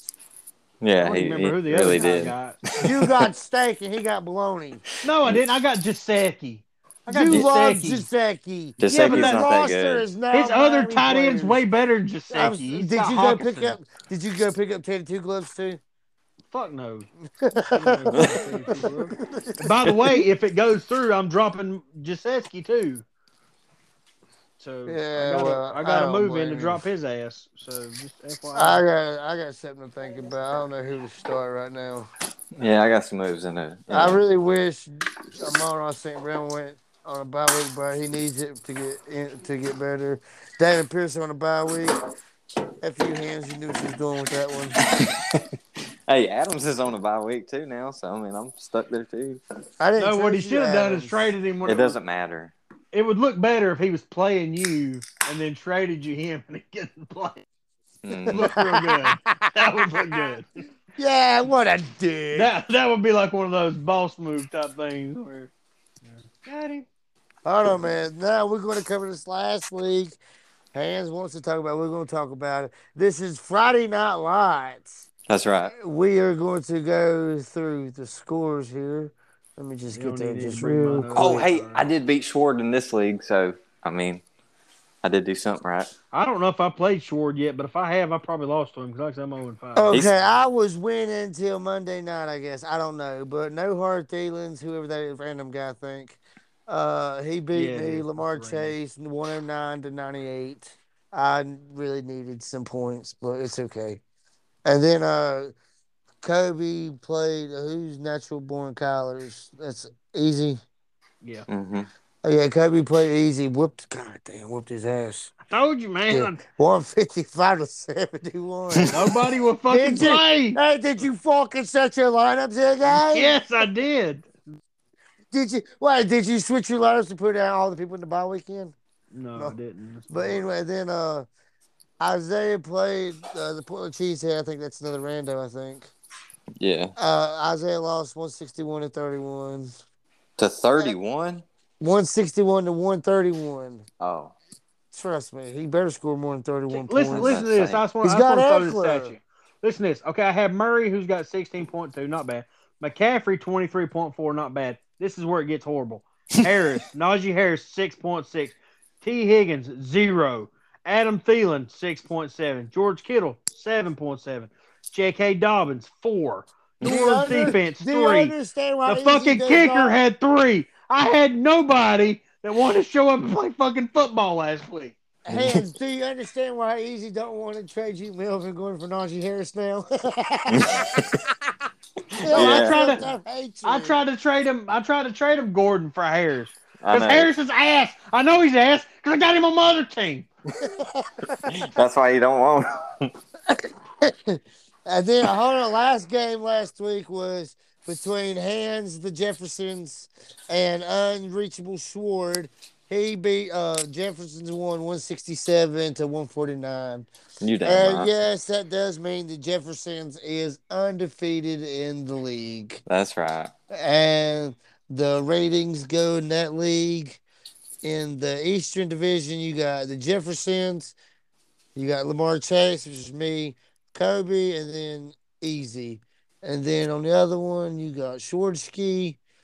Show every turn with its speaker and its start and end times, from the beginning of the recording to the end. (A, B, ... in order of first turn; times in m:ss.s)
0:00.8-0:03.3 A
0:01.0-0:02.6 B
0:02.8-0:04.8 C
0:05.0-0:08.1 B
0:07.1-0:11.6 C
0:08.8-0:10.1 A
0:08.8-0:09.5 B
0:10.3-0:13.8 B
0:12.3-0:15.8 C
0:16.5-0:17.1 B
0:17.4-0:19.9 C
0:17.7-0:23.0 B
0:24.6-0:28.8 B
0:24.9-0:26.8 C
0:28.6-0:32.1 C
0:32.6-0:34.2 A
0:33.9-0:42.0 C
0:42.8-0:44.8 C
0:44.8-0:45.5 A
0:46.1-0:49.4 A
0:49.8-0:51.2 C
0:50.0-0:52.0 B
0:51.6-0:52.5 A
0:52.9-0:57.4 B
0:58.0-0:58.5 A
0:58.3-1:00.3 C
0:58.3-1:00.5 B
1:01.0-1:02.5 C
1:02.3-1:05.5 B
1:06.0-1:06.9 B
1:07.4-1:10.2 C
1:10.7-1:15.1 C
1:15.3-1:15.7 A
1:15.7-1:21.5 C
1:19.9-1:21.9 B
1:21.1-1:24.2 A
1:25.0-1:25.9 A
1:26.1-1:30.3 B
1:29.8-1:44.0 C
1:37.5-1:38.8 B
1:44.6-1:45.5 C
1:46.2-1:50.6 C
1:51.2-1:51.5 B
1:51.5-1:51.9 A
1:52.2-1:55.3 C
1:55.5-1:56.4 B
1:56.1-1:59.0 C
1:58.9-2:00.6 B
1:59.7-2:03.4 C
2:02.9-2:04.3 B
2:05.3-2:08.7 C
2:09.1-2:10.4 B
2:10.1-2:11.3 C
2:12.0-2:15.9 C
2:16.6-2:16.9 A
2:17.0-2:19.7 C
2:20.4-2:21.4 A
2:21.8-2:23.8 C
2:24.0-2:24.4 A
2:24.9-2:27.4 C
2:26.7-2:48.4 B
2:27.1-2:27.8 A
2:28.0-2:29.1 C
2:46.8-2:50.0 C
2:48.9-2:55.0 B
2:55.3-3:01.3 C
2:55.3-2:55.6 A
3:00.5-3:01.2 A
3:02.2-3:03.0 A
3:02.2-3:04.0 C
3:02.3-3:03.0 B
3:03.6-3:10.3 B
3:06.8-3:07.3 A
3:10.6-3:11.5 C
3:11.4-3:13.1 A
3:13.5-3:27.1 C
3:27.4-3:28.1 A
3:27.6-3:32.8 C
3:32.9-3:33.5 A
3:33.7-3:37.2 C
3:37.8-3:41.0 C
3:41.8-3:49.2 C